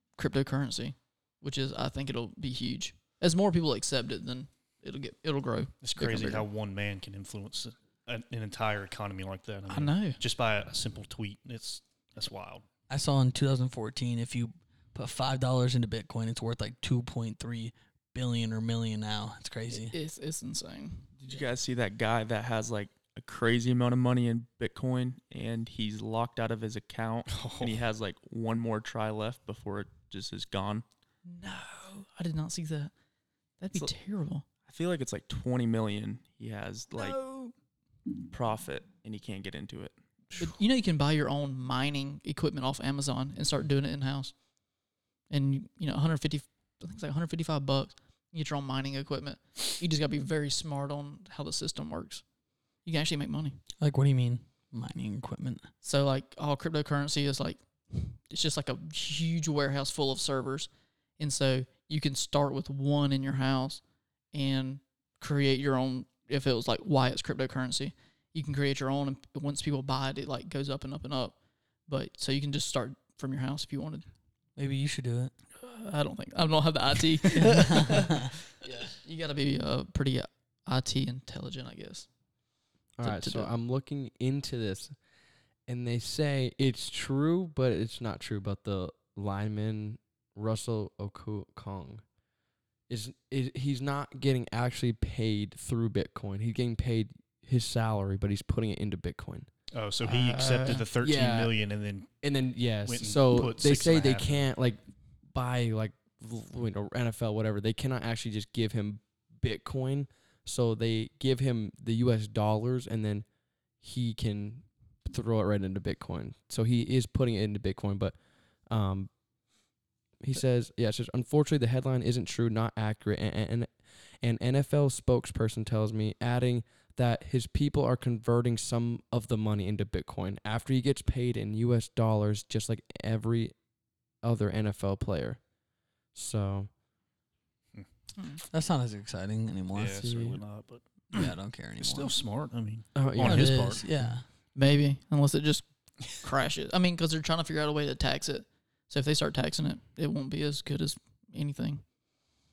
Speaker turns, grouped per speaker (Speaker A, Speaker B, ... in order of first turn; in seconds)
Speaker A: 0.2-6.5, 9.7-10.2, 19.7-21.4, 31.3-32.9, 33.6-34.5, 37.0-37.5, 40.4-44.3, 45.3-52.2, 52.9-53.6, 55.8-71.3, 71.9-74.0, 75.6-82.1, 83.0-83.5, 100.0-100.9, 144.6-151.8
Speaker B: 5.8-12.7, 27.3-27.8, 99.7-102.1, 102.8-104.4, 139.7-143.8
Speaker C: 12.9-20.0, 53.8-55.7, 74.6-75.3, 77.3-78.3, 138.5-140.0, 141.1-142.2, 143.2-144.2
Speaker D: 21.2-30.9, 34.7-37.2, 38.3-39.9
Speaker E: 83.0-85.0, 85.7-92.0, 92.9-99.5, 101.0-101.5, 102.2-113.3, 113.8-118.2, 118.7-119.1, 120.2-133.5, 134.2-135.4, 136.1-136.7, 140.0-140.4, 142.9-144.1